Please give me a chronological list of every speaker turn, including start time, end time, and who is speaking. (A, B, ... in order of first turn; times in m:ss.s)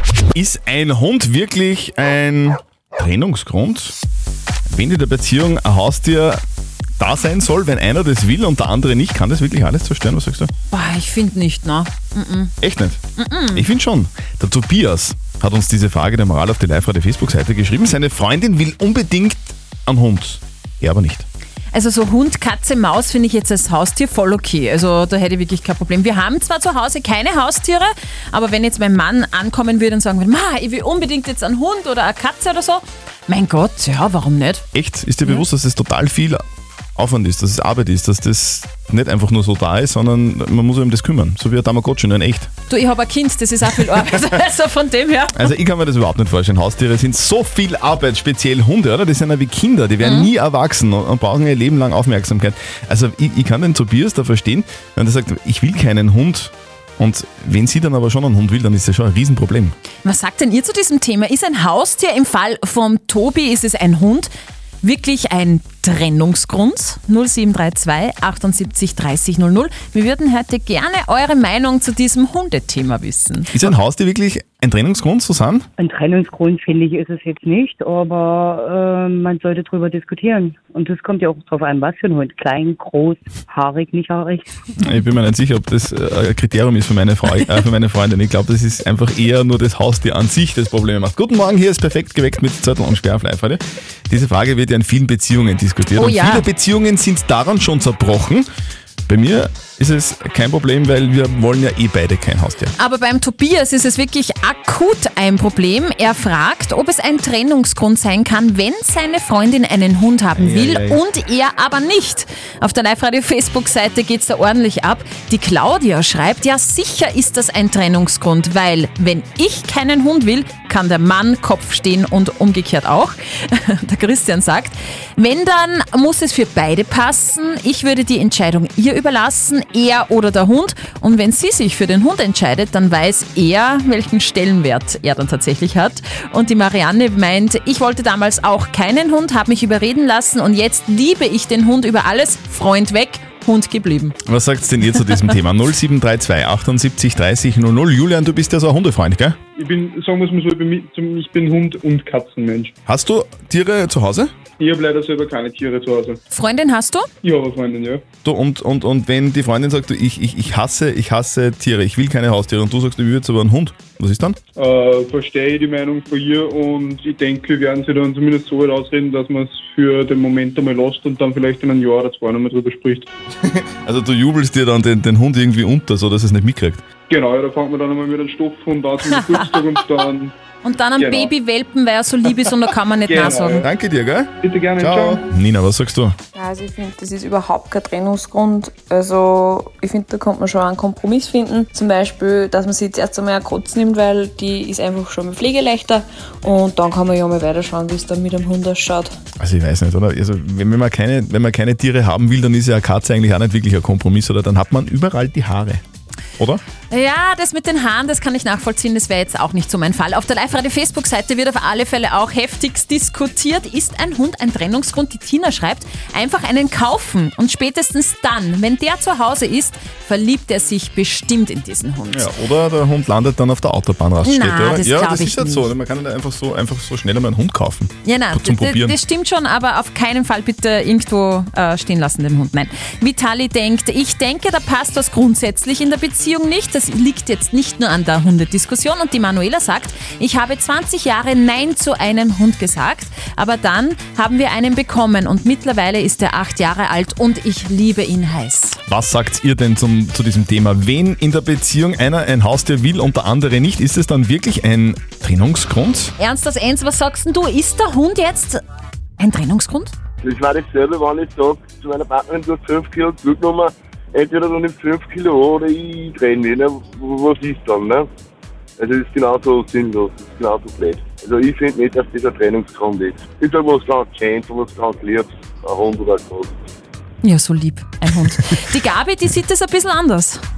0:00.3-0:04.0 A
0:04.7-0:06.4 A
0:07.0-0:10.5 A
0:10.7-0:12.5 B
0:12.6-0:13.0 A
0:13.2-0:13.6 B
0:13.5-0:21.3 A
0:21.7-0:34.6 B
0:34.7-0:36.4 A
0:37.0-0:42.5 A
0:42.7-0:45.5 B
0:45.3-0:59.8 A
0:50.0-0:50.3 B
1:00.0-1:04.3 B
1:04.8-1:13.5 B
1:13.5-1:15.7 A
1:15.8-1:24.5 C
1:24.8-1:38.5 A
1:36.0-1:36.4 B
1:39.1-1:42.7 A
1:42.8-2:24.2 B
1:50.4-1:51.0 A
2:24.3-2:29.4 A
2:29.6-2:32.7 D
2:32.9-2:34.3 A
2:34.6-2:36.2 D
2:36.3-2:37.1 B
2:37.2-2:38.0 D
2:38.2-2:44.4 A
2:44.6-2:53.1 D
2:53.4-2:56.8 A
2:57.1-3:00.3 D
2:59.1-2:59.5 B
3:00.6-3:03.6 B
3:01.0-3:01.3 D
3:03.1-3:03.7 D
3:03.6-3:06.2 A
3:04.4-3:05.2 D
3:06.4-3:19.1 E
3:19.4-3:25.8 A
3:26.9-3:42.3 B
3:42.1-3:49.0 A
3:44.2-3:45.7 B
3:48.0-4:08.8 B
4:08.9-4:16.1 A
4:16.2-4:18.6 B
4:19.2-4:19.9 B
4:20.2-4:28.1 F
4:28.8-4:36.6 F
4:37.2-4:40.4 B